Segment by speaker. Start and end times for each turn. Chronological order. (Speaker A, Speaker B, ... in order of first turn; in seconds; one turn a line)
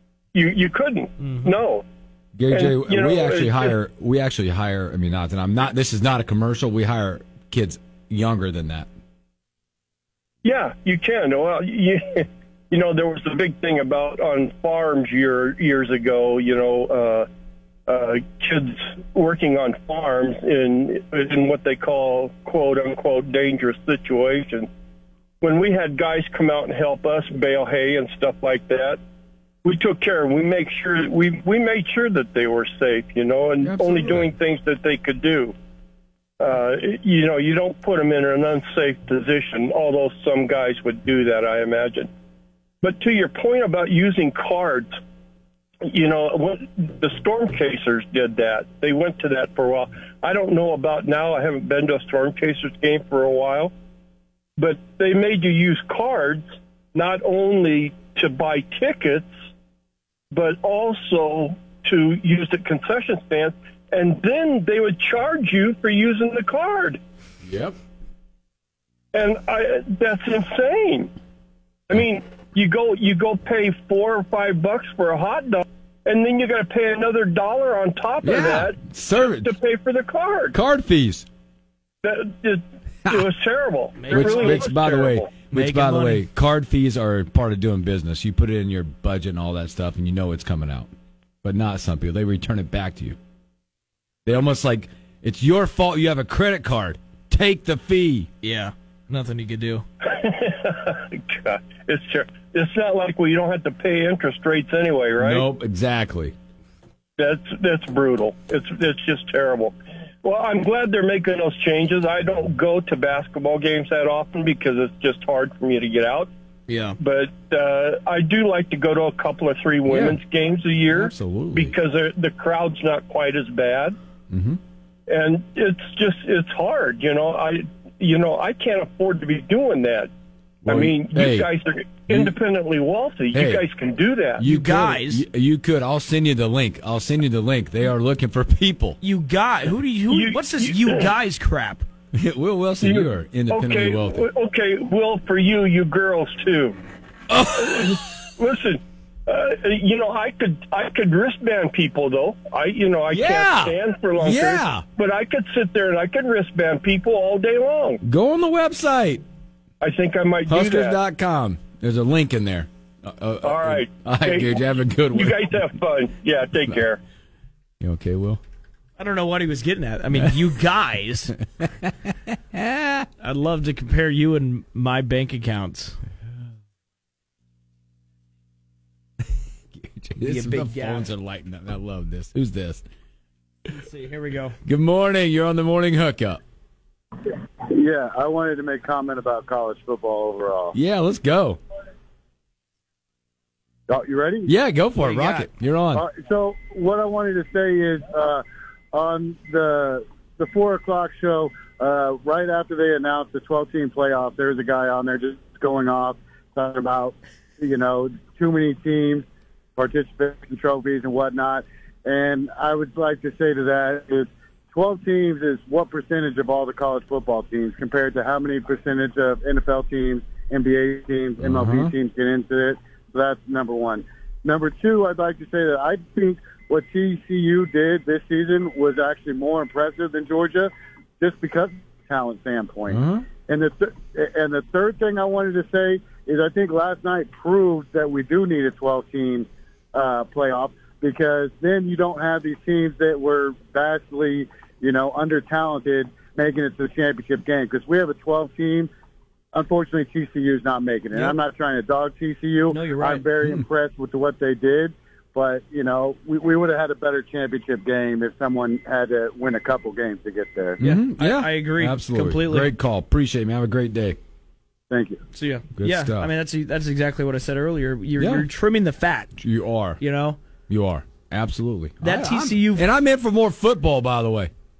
Speaker A: 0.3-1.8
Speaker B: 1.2-1.5
Speaker C: 2.4-8.9
Speaker A: 2.5-3.7
Speaker A: 10.4-17.2
Speaker A: 17.9-24.7
Speaker A: 25.4-29.0
Speaker A: 29.6-35.5
Speaker C: 33.6-34.3
Speaker A: 36.4-42.1
Speaker A: 42.8-44.9
Speaker A: 45.9-53.7
Speaker A: 54.6-59.3
Speaker A: 60.3-67.0
Speaker C: 67.4-67.8
Speaker A: 69.1-71.1
Speaker A: 71.9-80.5
Speaker C: 78.2-79.5
Speaker C: 80.5-81.2
Speaker A: 82.0-85.3
Speaker B: 84.0-84.7
Speaker C: 84.1-90.9
Speaker B: 85.5-86.2
Speaker C: 91.4-93.2
Speaker C: 94.2-98.3
Speaker B: 98.4-99.8
Speaker A: 100.0-105.4
Speaker C: 105.2-106.3
Speaker A: 107.2-116.3
Speaker B: 116.7-117.0
Speaker A: 117.0-124.0
Speaker C: 119.9-120.2
Speaker C: 120.9-121.7
Speaker C: 124.3-124.6
Speaker A: 125.1-130.1
Speaker C: 130.6-131.5
Speaker A: 130.7-134.4
Speaker C: 133.3-133.6
Speaker C: 134.4-139.0
Speaker B: 134.4-135.2
Speaker B: 139.0-141.8
Speaker A: 140.1-141.1
Speaker C: 142.1-144.2
Speaker A: 142.8-146.8
Speaker C: 147.3-148.0
Speaker A: 147.5-158.0
Speaker C: 153.1-154.8
Speaker C: 158.0-159.2
Speaker A: 159.8-161.0
Speaker C: 160.5-165.4
Speaker A: 163.4-164.5
Speaker A: 165.1-167.0
Speaker C: 167.8-168.4
Speaker B: 169.0-171.3
Speaker C: 171.6-173.1
Speaker B: 173.2-176.0
Speaker C: 179.7-182.8
Speaker B: 180.2-181.1
Speaker B: 183.7-184.6
Speaker C: 184.6-186.4
Speaker D: 187.7-190.7
Speaker C: 190.7-191.6
Speaker D: 193.9-194.5
Speaker C: 194.4-196.1
Speaker D: 195.9-209.2
Speaker D: 209.8-248.9
Speaker C: 221.4-221.9
Speaker C: 232.9-233.3
Speaker D: 249.5-260.8
Speaker B: 252.7-253.3
Speaker C: 260.8-264.2
Speaker B: 260.8-262.7
Speaker D: 264.9-265.2
Speaker B: 265.3-269.3
Speaker C: 265.8-266.3
Speaker C: 268.2-268.5
Speaker C: 269.4-270.0
Speaker B: 270.0-270.4
Speaker C: 270.7-274.5
Speaker B: 272.0-272.9